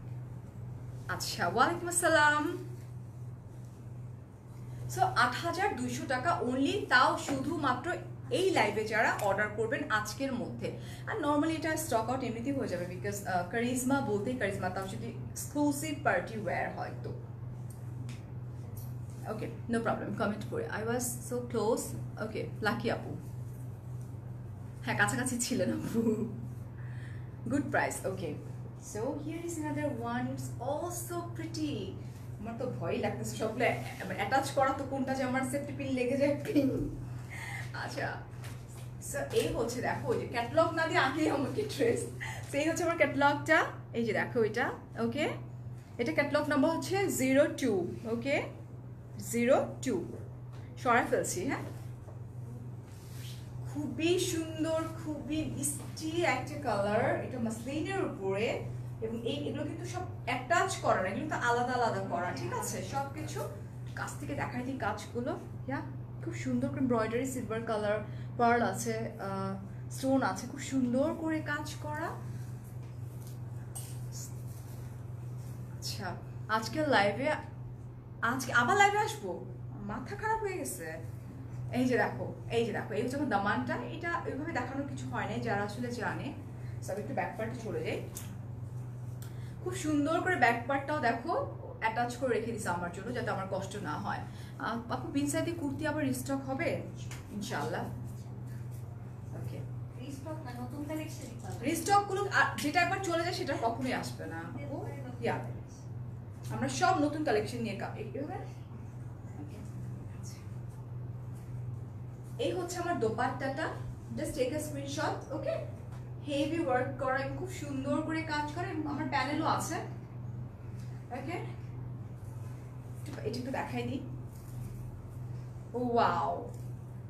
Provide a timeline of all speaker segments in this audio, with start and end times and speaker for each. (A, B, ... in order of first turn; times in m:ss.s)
0:01.1-0:02.6 A
0:04.9-0:17.2 A
0:18.6-0:18.9 B
0:19.2-0:23.2 A
0:24.8-0:26.4 A
0:27.5-0:38.2 A
0:39.0-0:45.3 A
0:46.0-0:48.5 A
0:49.2-0:50.1 A
0:50.8-0:51.6 A
0:53.6-1:12.1 A
1:02.1-1:02.9 B
1:15.8-1:17.4 A
1:18.3-1:21.0 A
1:21.7-1:26.3 A
1:26.8-1:28.0 A
1:29.6-1:37.9 A
1:37.4-1:38.6 B
1:39.3-1:39.6 A
1:39.9-1:41.9 B
1:41.6-1:45.4 A
1:44.5-1:45.8 B
1:46.5-1:48.5 A
1:49.4-1:50.4 A
1:52.4-1:55.6 A
1:56.2-1:59.8 A
2:01.1-2:01.4 A
2:03.0-2:04.0 A
2:05.7-2:06.5 A